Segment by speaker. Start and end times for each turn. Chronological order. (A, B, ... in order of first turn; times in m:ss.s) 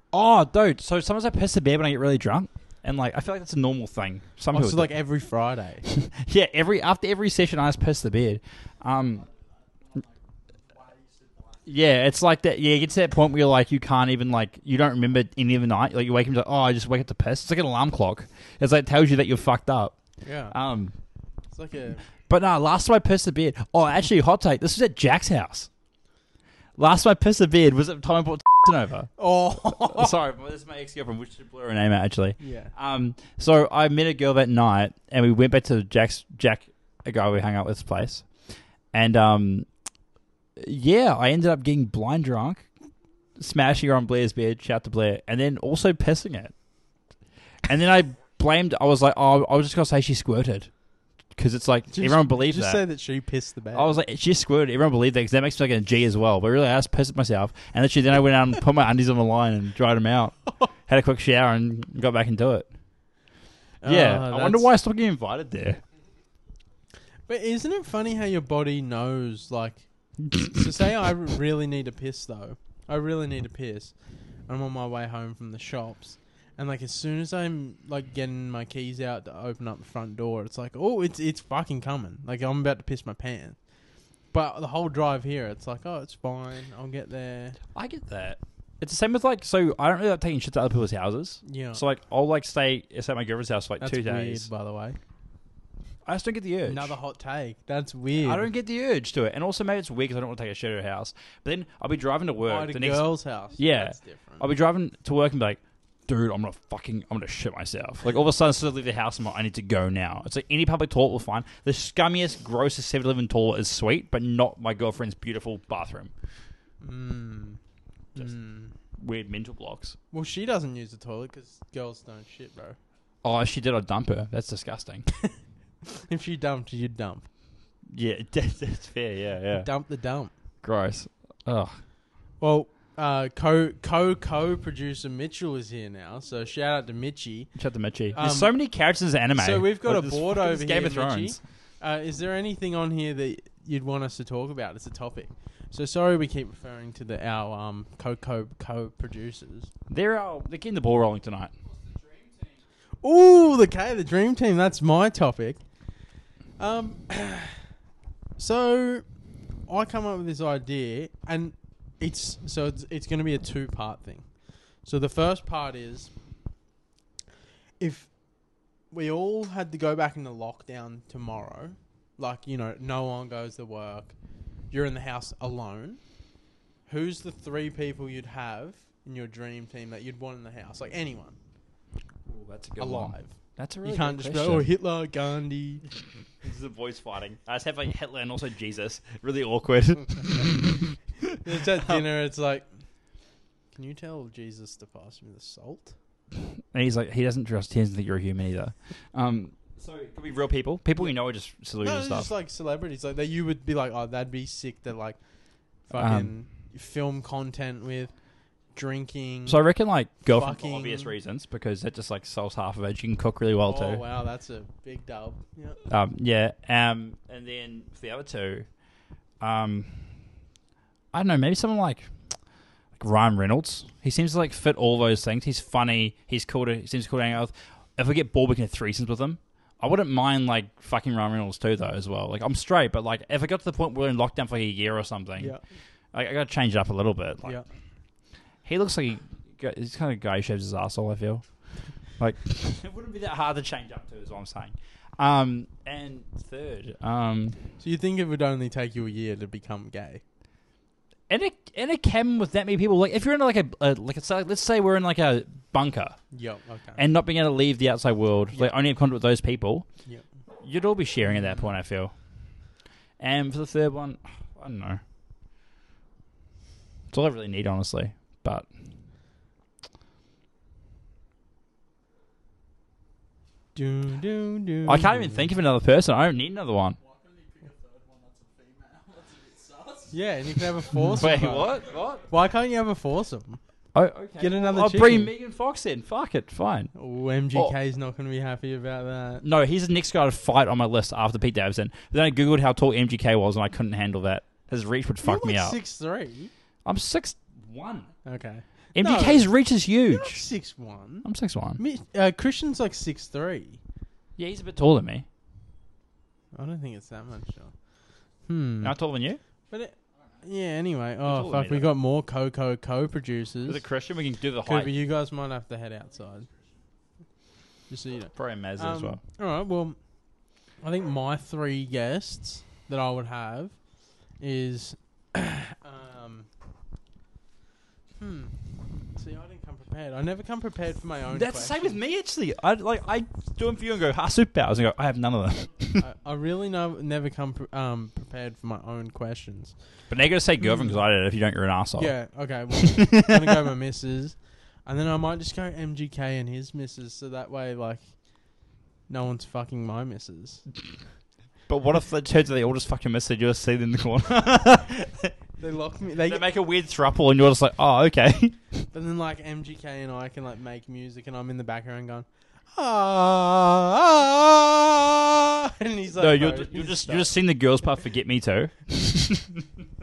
0:00.1-0:04.9 A
0:04.5-0:05.9 B
0:05.9-0:09.2 A
0:09.1-0:11.7 C
0:11.7-0:20.9 A
0:20.2-0:20.6 B
0:21.5-0:22.0 B
0:22.3-0:25.7 A
0:26.8-0:29.1 A
0:29.2-0:30.1 B
0:29.7-0:38.3 A
0:32.4-0:32.7 B
0:38.9-0:39.7 A
0:40.6-0:42.7 A
0:43.4-0:46.5 A
0:47.7-0:50.7 A
0:51.4-0:52.8 A
0:51.9-0:54.0 B
0:53.7-1:02.7 A
1:03.8-1:04.7 B
1:03.8-1:05.8 A
1:07.3-1:13.9 B
1:10.3-1:10.5 A
1:14.5-1:23.6 B
1:24.3-1:27.6 B
1:27.7-1:34.5 A
1:31.4-1:31.8 B
1:33.8-1:35.0 B
1:36.1-1:36.9 A
1:36.7-1:38.5 B
1:38.2-1:56.1 A
1:42.4-1:44.4 B
1:56.8-1:57.6 B
1:58.2-1:58.7 B
1:59.0-2:00.0 A
2:00.1-2:02.8 B
2:03.2-2:05.1 A
2:05.9-2:07.3 B
2:07.9-2:09.7 A
2:09.5-2:10.3 B
2:10.6-2:11.8 A
2:12.4-2:17.6 B
2:17.6-2:21.4 A
2:18.1-2:18.6 B
2:19.4-2:29.7 B
2:29.9-2:31.5 A
2:31.7-2:32.6 C
2:33.0-2:35.6 B
2:36.6-2:37.6 B
2:38.4-2:39.0 B
2:39.7-2:44.3 B
2:44.8-2:46.1 B
2:47.8-2:48.1 B
2:48.9-2:54.2 B
2:54.7-2:56.0 B
2:56.9-3:01.4 B
3:02.3-3:04.7 A
3:02.8-3:05.8 B
3:06.4-3:12.0 A
3:11.4-3:12.7 B
3:13.7-3:15.9 B
3:16.7-3:22.3 A
3:21.8-3:25.2 B
3:25.9-3:28.1 B
3:25.9-3:26.3 A
3:28.7-3:29.6 B
3:29.5-3:34.0 A
3:30.3-3:31.1 B
3:33.7-3:35.8 B
3:35.9-3:38.7 A
3:39.4-3:40.2 A
3:41.1-3:42.1 A
3:43.0-3:55.6 A
3:56.1-3:57.6 A
3:58.6-4:01.4 A
4:02.2-4:07.6 A
4:07.8-4:10.2 B
4:11.3-4:16.2 A
4:16.3-4:17.0 B
4:17.0-4:19.9 A
4:20.6-4:22.1 A
4:21.3-4:21.7 B
4:23.2-4:25.0 A
4:27.1-4:28.7 A
4:33.8-4:35.5 B
4:34.9-4:37.0 A
4:37.0-4:42.0 C
4:40.1-4:43.6 B
4:41.1-4:42.2 A
4:44.0-4:46.9 A
4:44.4-4:45.3 B
4:46.9-4:49.4 B
4:49.4-4:55.8 A
4:55.2-4:56.5 B
4:56.8-4:58.1 A
4:58.2-4:59.5 B
4:59.0-5:00.4 A
5:00.1-5:01.3 B
5:01.2-5:01.8 A
5:01.8-5:03.8 B
5:04.4-5:05.3 A
5:06.5-5:07.7 B
5:08.5-5:08.9 B
5:08.8-5:09.4 A
5:09.7-5:13.8 B
5:11.2-5:11.9 A
5:13.7-5:14.9 A
5:14.6-5:16.5 B
5:17.9-5:20.0 B
5:18.4-5:19.2 A
5:20.8-5:23.8 B
5:24.4-5:26.5 B
5:28.2-5:32.0 B
5:31.3-5:36.0 A
5:36.0-5:39.8 B
5:40.1-5:42.2 A
5:40.6-5:41.0 B
5:42.0-5:48.1 B
5:42.8-5:43.4 A
5:49.1-5:50.6 B
5:51.7-5:55.3 A
5:55.6-5:56.5 B
5:56.2-5:58.6 A
5:58.9-6:07.3 B
6:06.2-6:09.6 A